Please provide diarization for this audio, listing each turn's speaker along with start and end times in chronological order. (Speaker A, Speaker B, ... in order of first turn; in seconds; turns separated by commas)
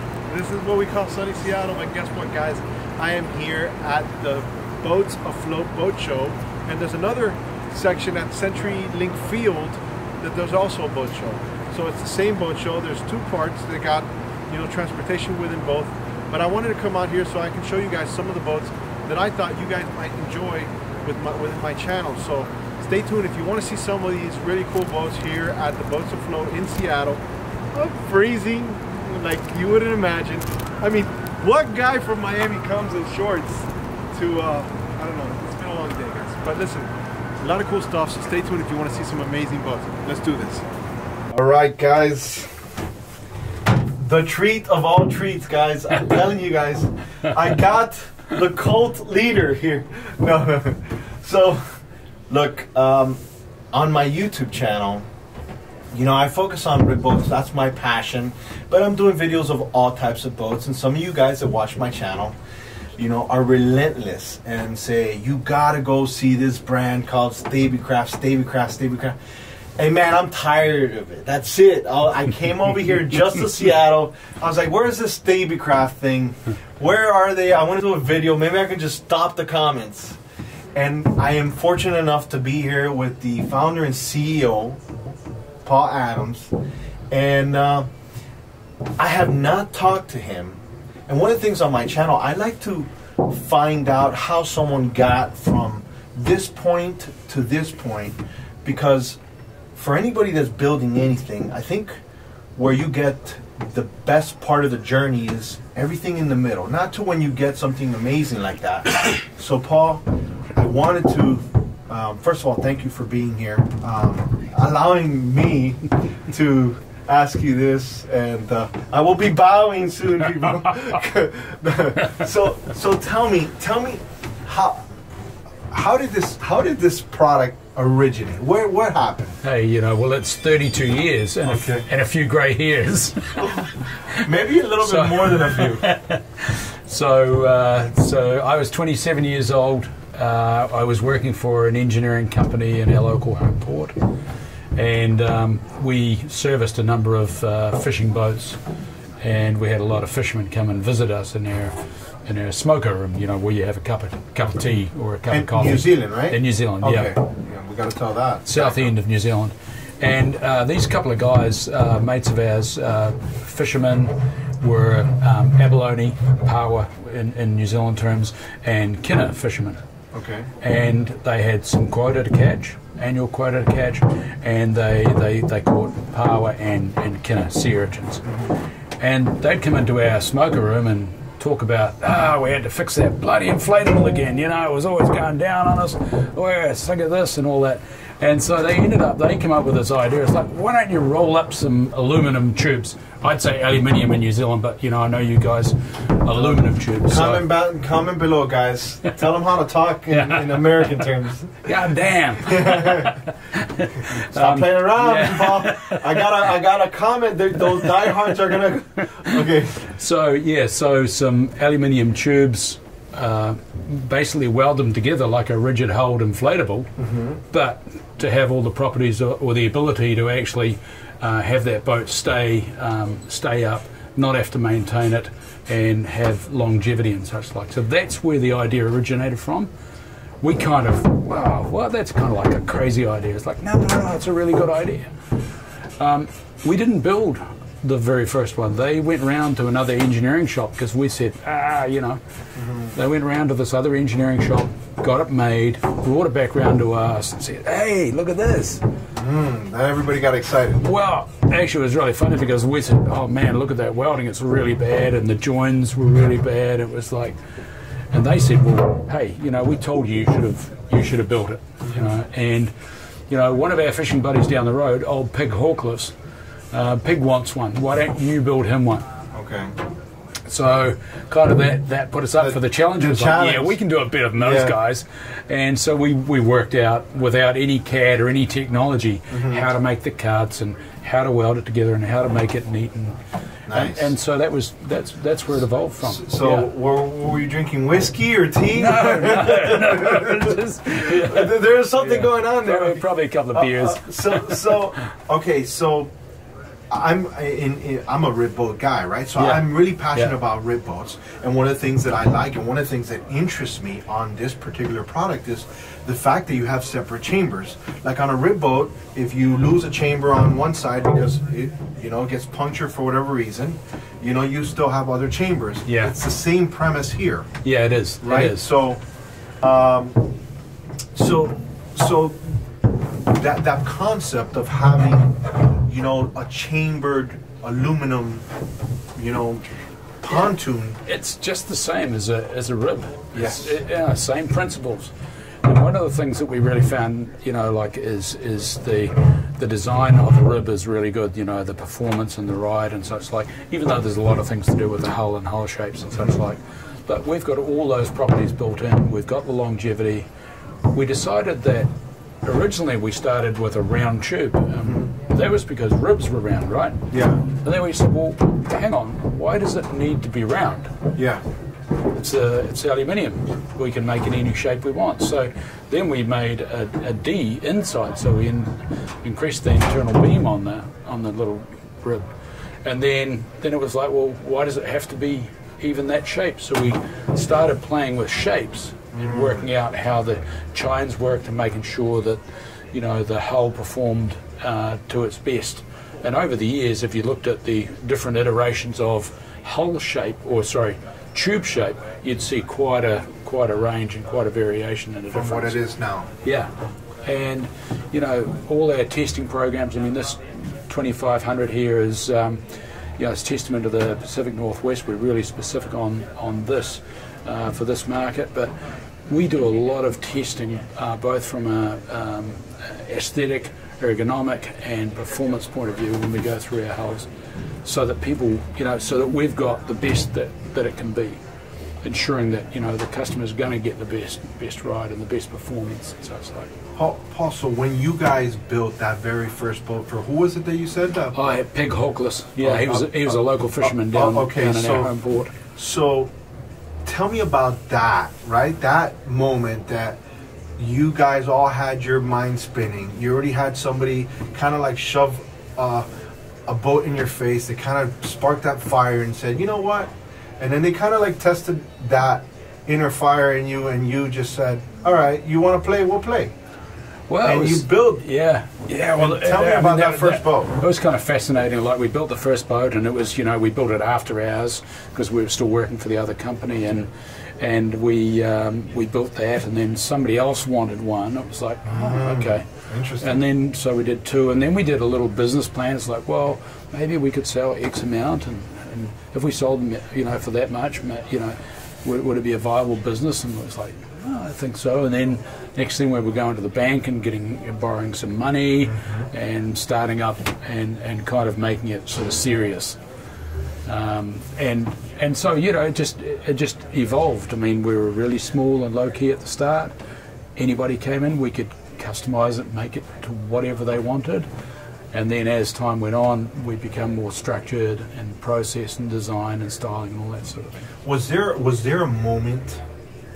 Speaker A: 0.3-27.2, Speaker A: 27.7-40.6, Speaker A: 41.3-42.5, Speaker A: 44.0-51.8, Speaker A: 52.3-53.2, Speaker A: 53.7-55.1, Speaker A: 55.9-62.4, Speaker A: 63.0-69.1, Speaker A: 69.8-80.2, Speaker A: 80.8-85.0, Speaker A: 85.6-86.5, Speaker A: 87.1-87.9, Speaker A: 89.0-99.2, Speaker A: 99.7-102.0, Speaker A: 102.5-110.0, Speaker A: 110.5-124.8, Speaker A: 125.7-129.4, Speaker B: 129.4-134.3, Speaker A: 131.4-131.8, Speaker A: 134.1-135.8, Speaker B: 134.8-144.1, Speaker B: 144.7-148.6, Speaker B: 149.2-157.1, Speaker A: 155.3-158.9, Speaker B: 158.4-169.8, Speaker A: 170.1-170.5, Speaker B: 170.6-178.2, Speaker A: 178.2-178.5, Speaker B: 179.0-197.5, Speaker A: 197.1-201.7, Speaker B: 200.1-200.8, Speaker B: 201.6-206.4, Speaker A: 202.4-203.3, Speaker A: 203.8-209.8, Speaker B: 207.8-208.1, Speaker B: 209.3-216.9, Speaker A: 217.0-217.4, Speaker B: 217.5-229.7, Speaker B: 230.4-235.2, Speaker B: 236.0-242.2, Speaker A: 242.6-242.9, Speaker B: 242.9-248.8, Speaker A: 249.2-250.8, Speaker B: 250.8-257.4, Speaker B: 258.1-262.7, Speaker A: 261.9-262.1, Speaker B: 263.3-266.1, Speaker B: 266.7-269.1, Speaker A: 269.3-269.7, Speaker B: 270.4-286.7, Speaker A: 272.4-273.7, Speaker A: 274.4-274.8, Speaker A: 279.3-279.6, Speaker A: 283.7-284.1, Speaker A: 286.0-296.1, Speaker B: 288.7-294.9, Speaker A: 296.9-317.5, Speaker B: 299.4-300.3, Speaker B: 315.9-316.1, Speaker B: 317.6-318.7, Speaker A: 318.2-319.0, Speaker A: 319.6-320.3, Speaker A: 321.1-322.5, Speaker A: 323.3-328.4, Speaker A: 329.1-329.6, Speaker A: 330.2-331.0, Speaker B: 331.0-350.3, Speaker A: 333.3-333.7, Speaker B: 350.9-351.9, Speaker B: 352.4-360.9, Speaker A: 354.8-355.1, Speaker A: 357.1-357.4, Speaker A: 361.1-361.4, Speaker B: 362.1-372.2, Speaker B: 372.8-382.4, Speaker A: 379.1-379.7, Speaker B: 382.9-395.8, Speaker A: 395.3-396.3, Speaker B: 396.4-396.7, Speaker B: 397.2-408.7, Speaker B: 409.2-417.3, Speaker B: 417.8-421.4, Speaker B: 422.0-426.7, Speaker A: 426.9-431.5, Speaker B: 431.3-435.5, Speaker A: 432.6-435.1, Speaker A: 435.6-436.3, Speaker A: 437.1-440.2, Speaker A: 440.8-446.1, Speaker A: 446.7-456.5, Speaker B: 457.3-493.0, Speaker A: 457.4-458.2, Speaker A: 459.1-460.8, Speaker A: 471.8-473.4, Speaker A: 488.9-489.3, Speaker B: 493.9-499.9, Speaker B: 500.6-504.5, Speaker B: 505.1-510.8, Speaker A: 511.0-512.8